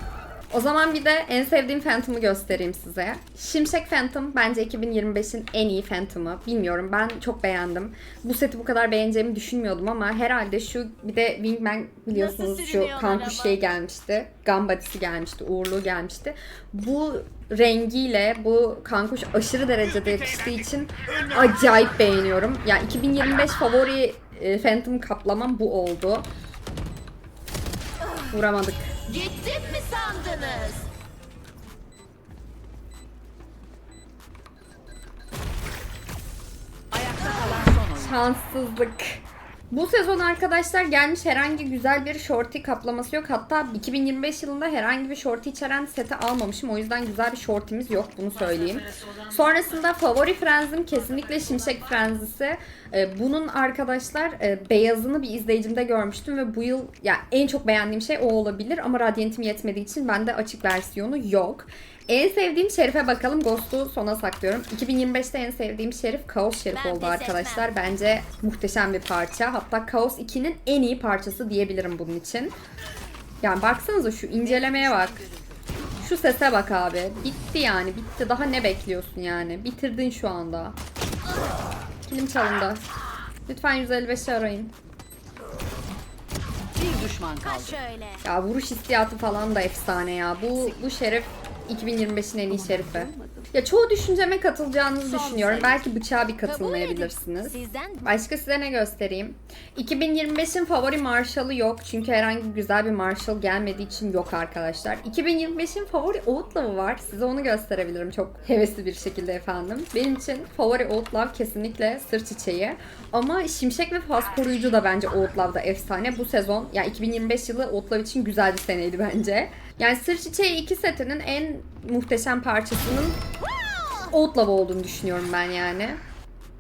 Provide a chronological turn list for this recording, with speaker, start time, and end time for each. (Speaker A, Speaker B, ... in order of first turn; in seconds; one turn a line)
Speaker A: 0.5-26.3
Speaker B: 12.1-13.6
Speaker A: 28.3-28.9
Speaker B: 29.1-30.9
Speaker C: 36.9-38.2
Speaker A: 37.9-72.6
Speaker B: 66.7-67.7
Speaker A: 73.4-75.2
Speaker C: 74.4-75.7
Speaker A: 76.0-80.8
Speaker A: 82.1-82.8
Speaker A: 83.5-84.7
Speaker C: 86.8-87.8
Speaker B: 87.5-88.2
Speaker A: 88.2-123.2
Speaker C: 92.7-93.4
Speaker C: 95.0-95.8
Speaker B: 96.4-98.1
Speaker B: 123.6-124.1
Speaker A: 124.1-126.0